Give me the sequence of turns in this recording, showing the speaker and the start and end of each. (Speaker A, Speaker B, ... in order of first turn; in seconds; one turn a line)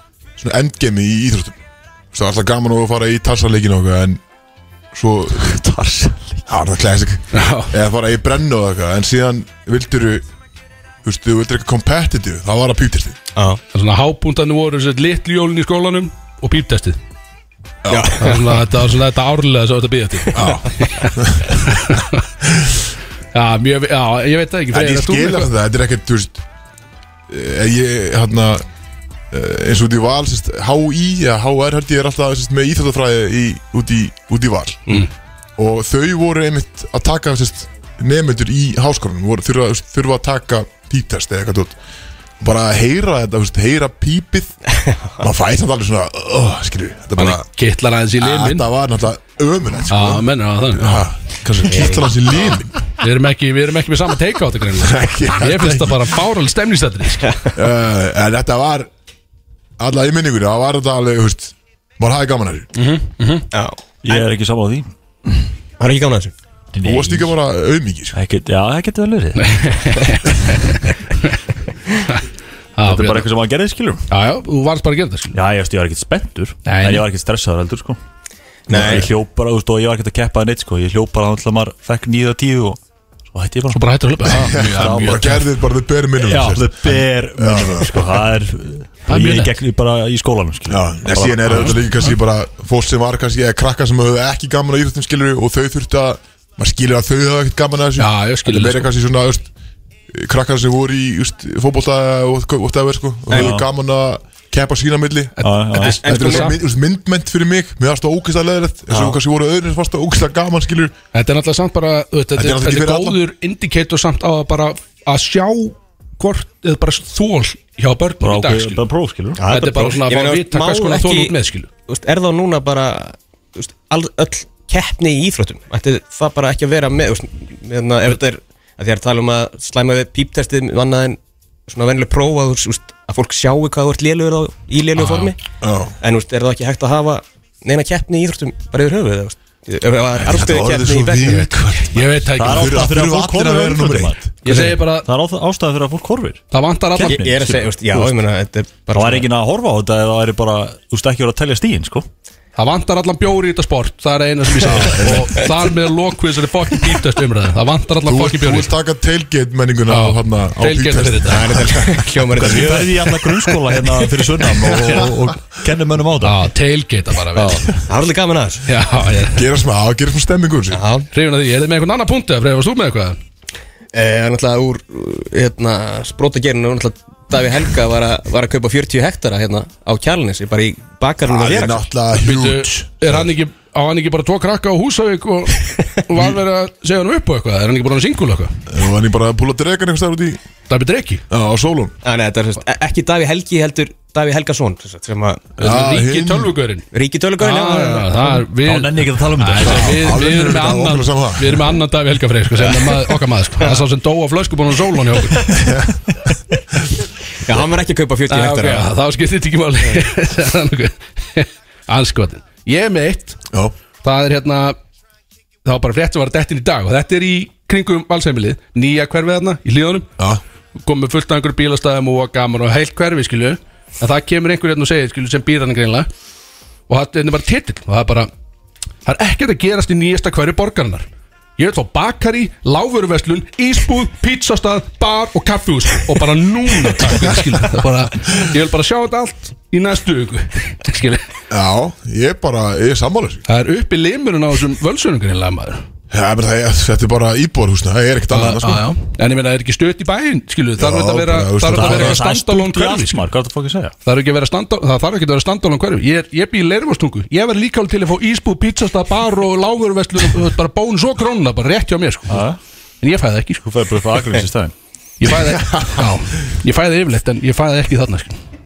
Speaker A: 0.4-1.6
Speaker A: 2.1-4.2
Speaker A: 4.9-5.6
Speaker B: 5.3-6.4
Speaker A: 6.5-10.2
Speaker C: 7.3-7.7
Speaker A: 11.0-13.2
Speaker C: 13.7-17.0
Speaker A: 17.8-18.4
Speaker D: 17.9-18.4
Speaker C: 18.2-22.2
Speaker A: 20.3-21.6
Speaker A: 22.4-22.8
Speaker C: 23.3-25.5
Speaker A: 24.7-26.4
Speaker A: 27.3-28.6
Speaker A: 29.3-35.0
Speaker A: 35.6-41.8
Speaker A: 42.4-44.5
Speaker A: 45.2-47.5
Speaker C: 47.2-48.7
Speaker A: 48.2-52.8
Speaker C: 49.9-51.0
Speaker D: 51.7-52.6
Speaker C: 53.0-57.3
Speaker A: 54.7-56.1
Speaker A: 57.5-58.9
Speaker A: 59.8-62.7
Speaker C: 62.7-63.4
Speaker D: 63.5-64.3
Speaker B: 64.0-65.4
Speaker D: 65.8-66.3
Speaker B: 66.7-67.3
Speaker A: 66.8-68.2
Speaker B: 68.1-70.0
Speaker C: 69.4-71.4
Speaker C: 72.8-73.3
Speaker B: 72.8-74.0
Speaker C: 74.1-75.3
Speaker B: 75.3-78.0
Speaker C: 76.7-77.0
Speaker D: 78.7-79.1
Speaker B: 78.7-82.8
Speaker B: 83.3-85.4
Speaker C: 83.7-85.4
Speaker A: 84.3-88.0
Speaker B: 86.2-91.8
Speaker C: 89.1-89.5
Speaker A: 90.7-99.5
Speaker C: 91.5-92.1
Speaker C: 98.0-98.9
Speaker A: 100.1-110.9
Speaker B: 103.3-103.7
Speaker C: 105.4-106.6
Speaker B: 105.4-106.0
Speaker D: 105.8-106.5
Speaker D: 108.9-109.2
Speaker C: 111.1-118.8
Speaker A: 112.3-113.2
Speaker B: 118.2-119.4
Speaker D: 119.4-121.3
Speaker C: 119.5-121.7
Speaker D: 121.9-135.4
Speaker C: 135.0-135.3
Speaker A: 135.6-135.9
Speaker D: 136.0-141.5
Speaker A: 140.2-144.7
Speaker C: 141.9-142.9
Speaker B: 142.4-148.2
Speaker C: 144.4-145.1
Speaker C: 146.5-147.2
Speaker D: 147.0-149.3
Speaker B: 148.9-152.1
Speaker C: 152.6-158.7
Speaker A: 158.0-162.0
Speaker C: 159.9-161.5
Speaker D: 161.3-163.1
Speaker B: 162.3-166.4
Speaker C: 166.2-167.7
Speaker B: 167.3-167.7
Speaker D: 167.9-168.6
Speaker C: 168.7-169.4
Speaker A: 169.3-170.8
Speaker D: 170.7-171.1
Speaker C: 171.1-173.2
Speaker D: 173.9-181.9
Speaker A: 181.2-183.3
Speaker C: 182.2-188.6
Speaker A: 188.7-190.4
Speaker C: 190.7-191.2
Speaker A: 191.3-191.9
Speaker D: 192.0-195.5
Speaker A: 195.6-196.5
Speaker C: 195.6-196.9
Speaker D: 196.9-198.1
Speaker C: 197.4-205.5
Speaker B: 198.6-200.0
Speaker A: 199.6-201.7
Speaker D: 202.6-203.0
Speaker A: 205.5-206.0
Speaker D: 207.4-208.9
Speaker C: 208.3-213.4
Speaker C: 214.0-214.8
Speaker C: 215.6-220.1
Speaker C: 220.8-226.1
Speaker C: 226.9-228.3
Speaker C: 229.1-231.1
Speaker C: 231.6-241.2
Speaker A: 241.5-243.4
Speaker C: 243.5-245.8
Speaker A: 246.1-248.9
Speaker C: 248.3-253.2
Speaker A: 250.8-252.2
Speaker B: 251.7-253.9
Speaker C: 254.0-262.4
Speaker B: 262.3-262.6
Speaker C: 263.0-263.6
Speaker B: 263.6-264.7
Speaker C: 265.2-268.4
Speaker A: 265.6-266.0